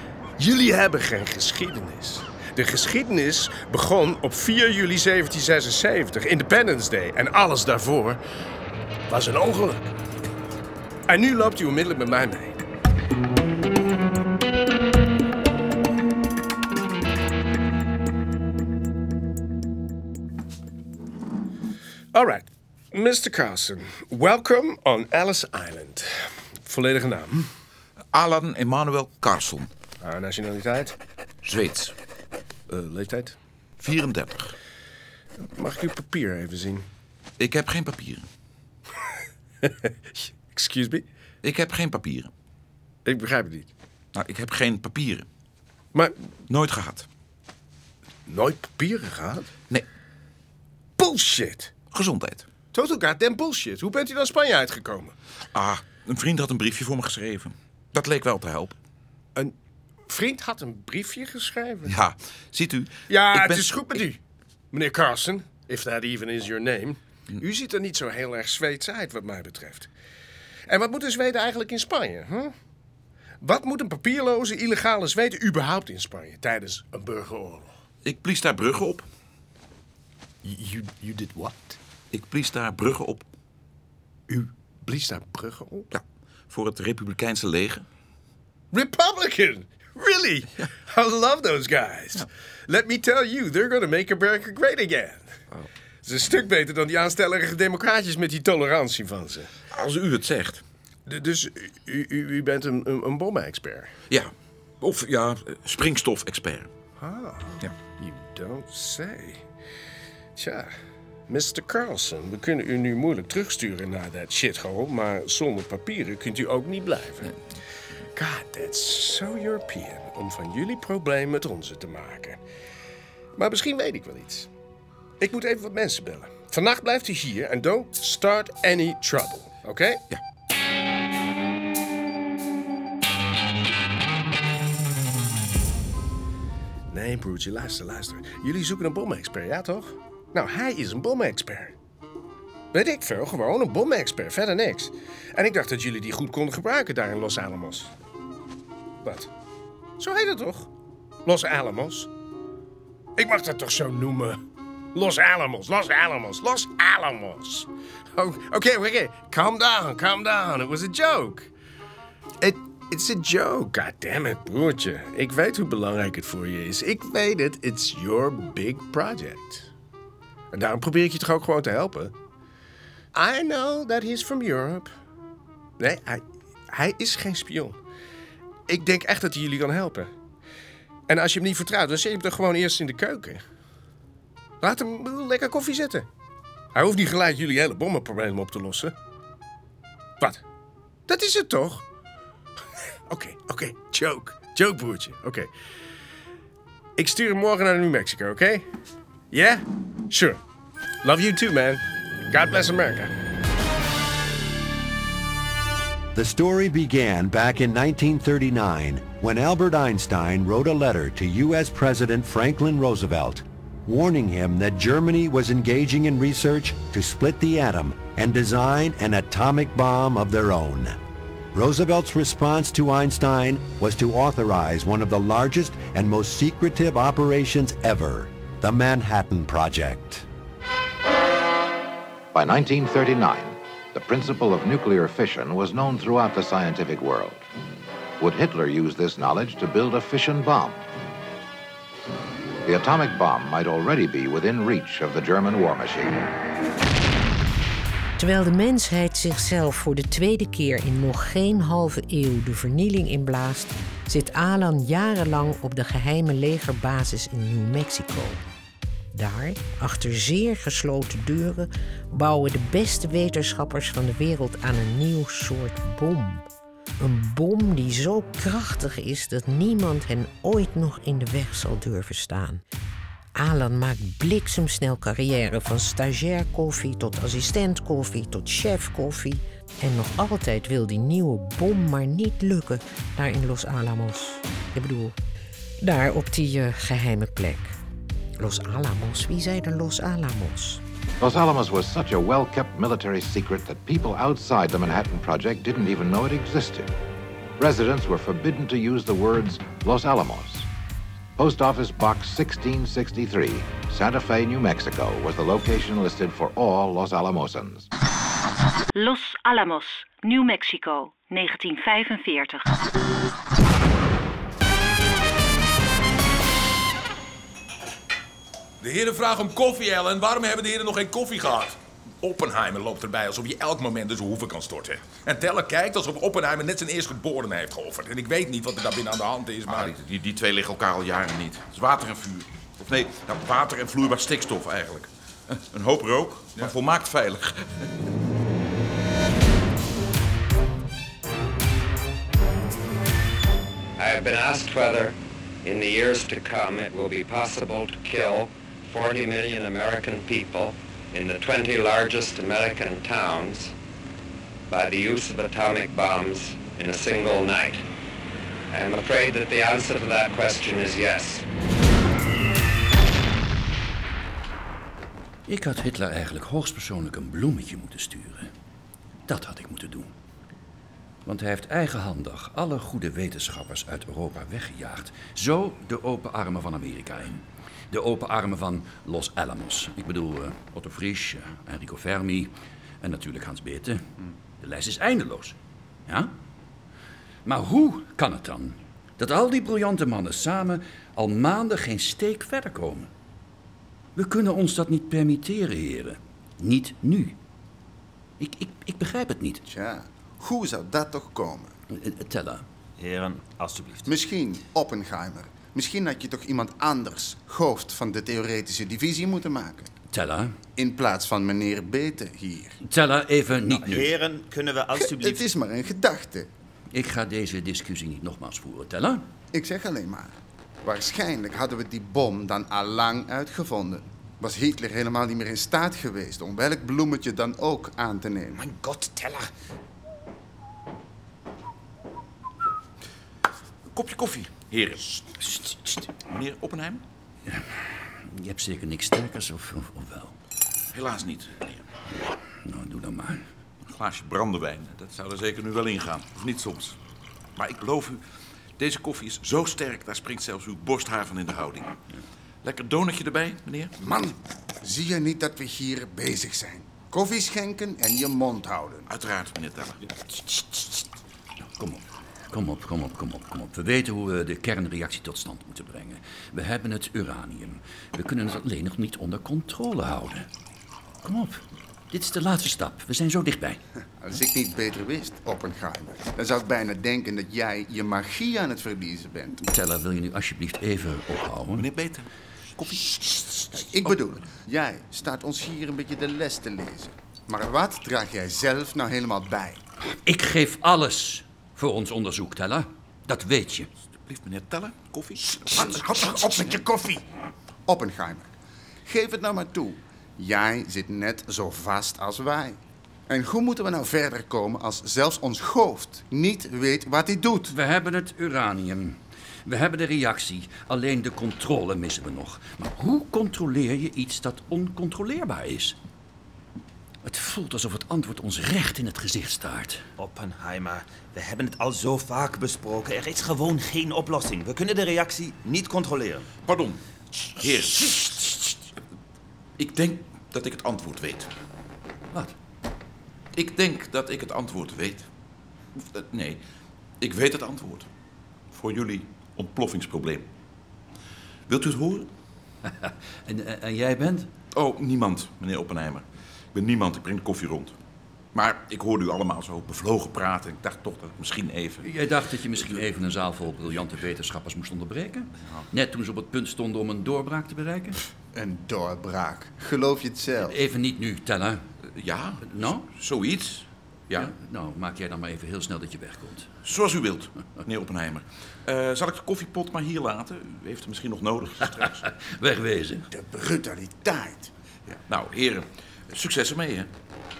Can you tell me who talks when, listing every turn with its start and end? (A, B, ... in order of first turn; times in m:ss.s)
0:00.4-0:08.2 A
0:09.1-0:09.9 A
0:11.1-0:12.6 A
0:22.1-0:27.5 A
0:28.1-0:29.7 B
0:30.0-0:30.9 A
0:31.4-0:31.9 B
0:32.7-0:33.4 A
0:33.8-0:34.5 B
0:35.6-0:36.8 A
0:37.4-0:38.3 B
0:39.6-0:41.0 A
0:41.4-0:42.3 B
0:43.0-0:43.7 A
0:44.1-0:45.3 B
0:46.5-0:47.1 B
0:48.3-0:49.5 A
0:51.0-0:51.7 A
0:51.9-0:52.4 B
0:52.7-0:55.1 A
0:55.5-0:58.8 B
1:00.1-1:02.0 A
1:01.8-1:04.0 B
1:03.1-1:04.2 A
1:04.7-1:09.9 A
1:10.7-1:12.5 A
1:13.4-1:17.7 A
1:18.0-1:19.0 B
1:20.9-1:21.4 A
1:22.1-1:23.2 B
1:24.3-1:25.9 A
1:25.9-1:27.8 B
1:28.7-1:35.3 A
1:36.0-1:39.5 A
1:39.7-1:40.6 B
1:41.0-1:43.9 A
1:44.1-1:46.7 B
1:47.0-1:49.4 A
1:50.4-1:50.7 A
1:51.3-1:57.3 A
1:58.1-2:02.4 A
2:03.4-2:04.5 A
2:05.2-2:10.0 A
2:16.9-2:21.7 A
2:22.7-2:27.9 A
2:29.0-2:29.3 A
2:30.0-2:30.7 A
2:31.2-2:32.1 A
2:33.2-2:34.4 A
2:34.9-2:41.5 A
2:42.4-2:49.7 A
2:50.5-2:52.1 A
2:53.1-2:54.9 A
2:55.8-2:57.8 A
2:58.7-3:00.1 A
3:01.1-3:03.4 A
3:04.6-3:06.0 A
3:06.7-3:08.9 A
3:11.1-3:11.8 A
3:13.1-3:15.5 A
3:17.0-3:18.6 A
3:19.3-3:20.4 A
3:21.0-3:23.1 A
3:26.1-3:41.0 C
3:41.5-3:50.2 C
3:52.3-3:57.4 D
3:58.2-4:00.8 D
4:02.6-4:06.3 D
4:08.2-4:18.4 E
4:19.1-4:26.4 E
4:27.0-4:32.6 E
4:33.4-4:45.2 E
4:45.8-4:47.8 E
4:48.4-4:50.8 E
4:51.2-4:56.9 D
4:57.6-5:00.7 D
5:01.4-5:07.9 D
5:08.9-5:12.7 F
5:18.8-5:29.9 G
5:29.6-5:37.9 B
5:44.0-5:53.7 H
5:54.7-5:57.8 H
5:58.7-6:01.4 H
6:05.5-6:08.5 I
6:09.3-6:10.1 I
6:11.2-6:24.1 I
6:24.6-6:26.3 I
6:27.4-6:33.1 I
6:34.2-6:37.4 I
6:38.4-6:39.6 I
6:39.7-6:41.7 J
6:41.9-6:42.6 I
6:43.0-6:44.1 K
6:44.0-6:49.9 J
6:50.1-6:50.5 I
6:50.8-6:52.8 J
6:52.8-6:54.1 I
6:53.7-6:55.4 K
6:55.0-6:56.5 J
6:56.9-6:59.2 I
6:59.5-7:00.3 J
7:00.8-7:08.6 J
7:08.6-7:09.5 B
7:13.9-7:15.0 B
7:15.4-7:16.1 I
7:16.2-7:17.0 B
7:17.5-7:20.4 I
7:20.9-7:21.8 B
7:22.6-7:23.5 I
7:23.9-7:27.0 B
7:27.6-7:28.2 B
7:28.8-7:32.0 B
7:32.6-7:33.9 B
7:34.0-7:39.1 J
7:39.1-7:40.0 B
7:41.6-7:50.5 I
7:51.2-7:53.8 I
7:54.2-7:59.6 J
7:59.6-8:01.9 I
8:01.8-8:04.2 B
8:03.7-8:09.8 J
8:10.2-8:13.9 I
8:14.2-8:16.7 B
8:15.6-8:17.2 J
8:17.9-8:18.5 J
8:19.0-8:27.7 J
8:27.7-8:36.0 I
8:37.2-8:40.0 I
8:40.2-8:46.5 K
8:46.6-8:47.0 B
8:47.6-8:48.7 B
8:49.8-8:51.5 B
8:53.5-8:55.3 B
8:56.0-8:56.6 B
8:57.2-8:58.1 B
8:58.7-9:00.5 B
9:01.7-9:02.3 B
9:02.8-9:04.5 I
9:04.7-9:08.0 B
9:08.5-9:12.1 B
9:12.0-9:18.2 I
9:18.5-9:20.8 J
9:20.6-9:21.8 I
9:22.1-9:24.5 B
9:22.6-9:23.1 I
9:24.3-9:26.7 I
9:26.8-9:32.2 B
9:32.0-9:33.2 I
9:33.3-9:34.7 J
9:35.3-9:37.1 B